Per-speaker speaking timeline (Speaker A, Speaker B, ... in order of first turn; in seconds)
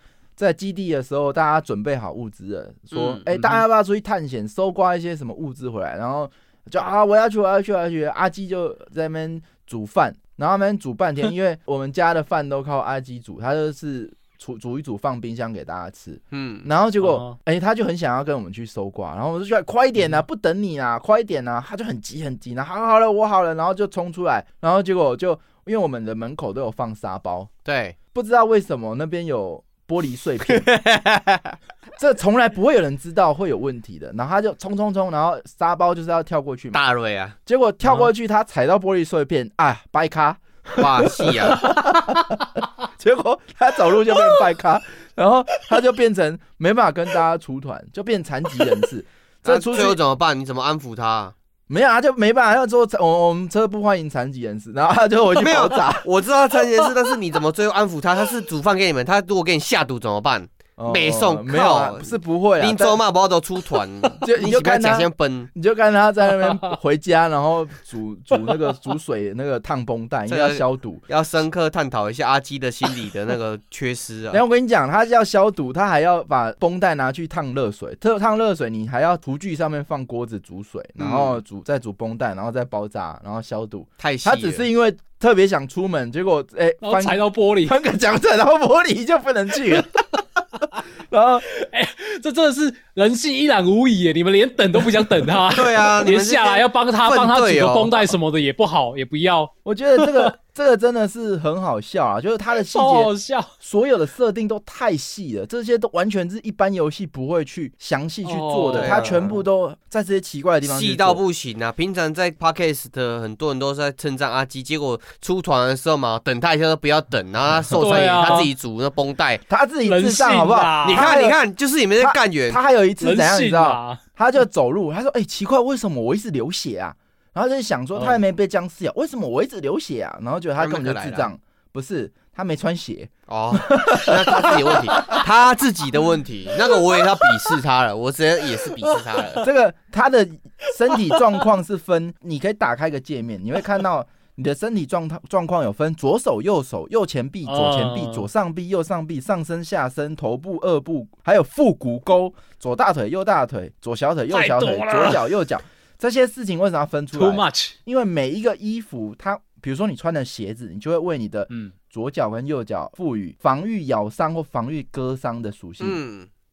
Speaker A: 0.4-27.5, 28.1-30.7, 32.0-36.8, 37.5-50.0, 51.7-56.1, 60.8-63.0, 64.2-71.0, 74.3-90.2, 91.1-91.5, 99.7-111.2, 119.5-121.4, 122.0-135.2, 139.4-166.0
Speaker B: 2.9-3.2, 16.3-16.7, 27.6-28.0, 30.5-31.6, 36.7-37.4, 40.8-42.0, 49.5-51.3, 55.4-65.5, 70.3-74.4, 81.0-81.4, 84.0-84.7, 95.5-98.2, 108.7-109.2, 110.6-119.4, 120.8-122.6, 130.6-131.3, 133.3-139.4, 165.8-166.3
Speaker C: 3.3-3.6, 17.0-17.4, 37.8-38.1, 86.8-87.8, 91.5-100.3, 102.6-103.5, 108.2-109.4, 117.8-118.5, 119.8-121.1, 123.0-124.0, 128.0-128.2, 138.8-139.2, 140.9-141.2, 147.5-148.3, 154.3-155.3, 157.1-157.8